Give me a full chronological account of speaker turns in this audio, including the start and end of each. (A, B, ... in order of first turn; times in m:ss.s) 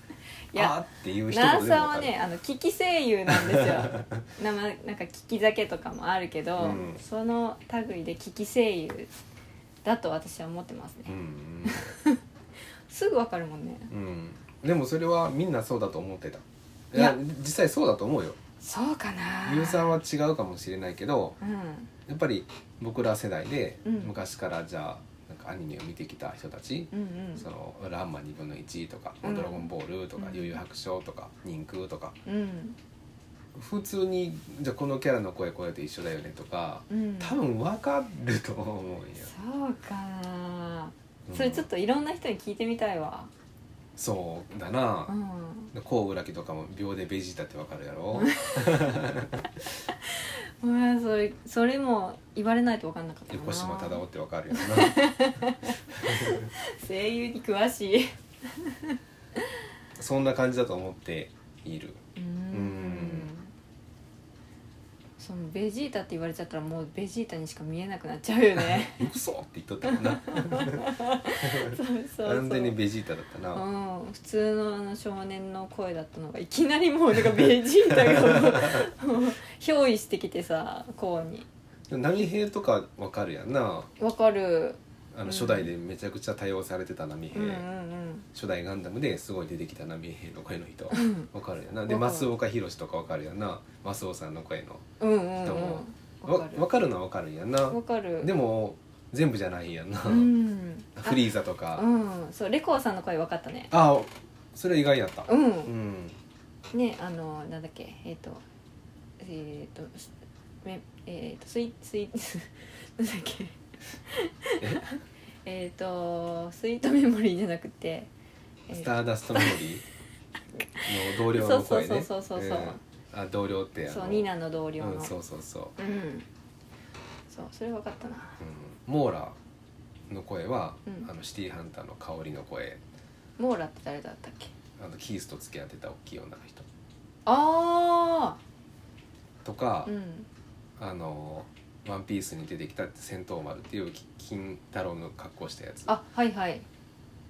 0:00.5-0:02.2 A
0:01.3-0:09.1 B
0:03.3-0:04.2 A
0:06.6-0:07.0 A
0:09.8-0:11.1 B
0:11.1-0:11.9 A
0:11.6-0:12.2 B
0:12.9-0:13.9 B
0:13.9-0:18.4 A
0:18.6-0:20.0 B
0:19.4-0:21.4 A
0:21.4-0:21.9 B
0:22.1-0:32.2 A
0:23.8-0:24.2 B
0:26.9-0:27.5 B
0:29.2-0:30.6 B
0:32.3-0:32.8 B
0:33.6-0:39.3 A
0:36.9-0:37.4 B
0:39.2-0:43.3 B
0:41.3-0:41.7 A
0:44.0-0:45.1 A
0:45.1-0:45.7 B
0:45.7-0:49.5 A
0:48.1-0:48.9 B
0:50.1-0:59.4 B
0:53.3-0:56.5 A
1:00.0-1:02.0 A
1:02.2-1:03.5 B
1:02.5-1:03.3 A
1:05.2-1:09.1 B
1:08.6-1:13.7 A
1:09.8-1:12.8 B
1:13.5-1:21.5 B
1:18.0-1:18.9 A
1:21.9-1:23.9 A
1:24.0-1:25.7 B
1:25.1-1:27.7 A
1:27.3-1:28.3 B
1:28.3-1:34.8 A
1:30.9-1:31.3 B
1:31.9-1:32.3 B
1:35.0-1:36.7 B
1:35.4-1:40.3 A
1:37.7-1:38.3 B
1:40.1-1:41.2 B
1:41.0-1:41.8 A
1:41.8-1:43.7 B
1:43.7-1:46.2 A
1:45.3-1:45.7 B
1:46.7-1:48.4 B
1:49.2-1:50.1 B
1:50.6-1:58.1 B
1:54.6-1:54.8 A
1:58.7-1:59.7 B
1:58.7-1:59.8 A
2:00.8-2:02.8 B
2:00.8-2:05.8 A
2:03.9-2:05.1 B
2:05.8-2:06.3 B
2:07.3-2:08.4 B
2:08.4-2:09.4 A
2:10.1-2:12.8 A
2:13.4-2:14.5 B
2:14.8-2:16.7 A
2:17.3-2:18.4 B
2:19.4-2:19.9 A
2:19.8-2:20.3 B
2:20.8-2:25.9 A
2:25.9-2:26.7 B